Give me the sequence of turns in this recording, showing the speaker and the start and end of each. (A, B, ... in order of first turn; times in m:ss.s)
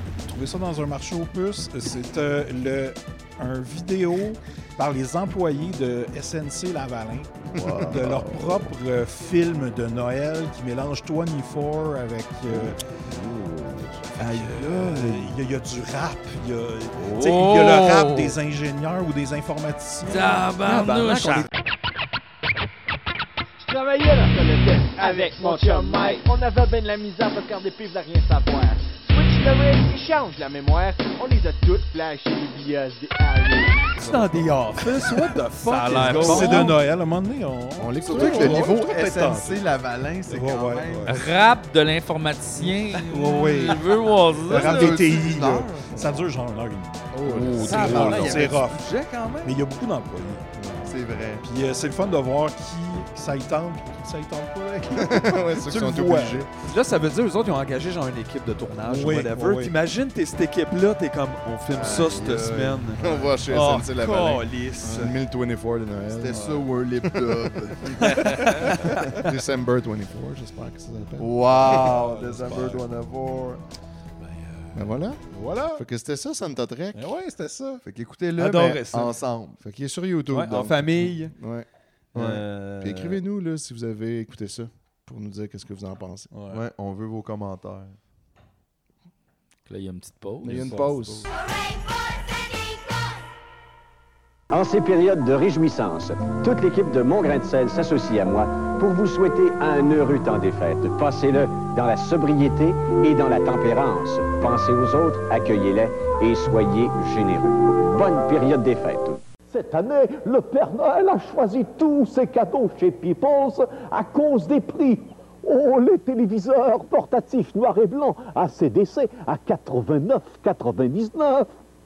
0:00.2-0:12.8 A
0:07.6-0:08.6 B
0:13.8-0:20.5 A
0:14.2-0:15.3 B
0:17.2-0:18.3 C
0:20.1-0:21.5 C
0:20.6-0:21.5 D
0:23.7-0:33.7 E
0:34.0-0:34.6 F
0:34.0-0:36.8 D
0:35.5-0:39.8 A
0:36.2-0:36.7 C
0:37.8-0:38.8 F
0:38.0-0:41.1 B
0:40.3-0:41.2 A
0:41.1-0:44.9 C
0:43.0-0:43.8 A
0:44.5-0:45.9 B
0:44.5-0:48.8 A
0:47.2-0:48.4 F
0:47.4-0:49.6 B
0:47.8-0:48.2 C
0:49.4-0:50.5 A
0:50.6-0:50.8 F
0:50.9-0:51.4 B
0:51.4-0:56.4 A
0:55.0-0:56.5 F
0:56.6-1:05.2 D
0:58.8-0:59.7 A
1:01.7-1:02.9 B
1:03.0-1:08.0 F
1:06.1-1:08.4 B
1:06.3-1:06.6 A
1:09.2-1:11.8 F
1:11.2-1:13.6 B
1:11.5-1:12.9 A
1:14.2-1:15.8 A
1:14.7-1:15.2 F
1:15.7-1:17.1 F
1:16.9-1:17.8 A
1:17.8-1:19.6 B
1:18.4-1:19.1 D
1:19.6-1:21.7 F
1:20.3-1:21.3 D
1:22.1-1:22.4 B
1:22.2-1:23.2 D
1:22.8-1:26.3 F
1:26.3-1:26.6 A
1:26.5-1:28.0 B
1:29.7-1:31.1 C
1:30.4-1:31.3 F
1:30.5-1:30.9 A
1:34.5-1:49.2 G
1:49.5-2:01.6 H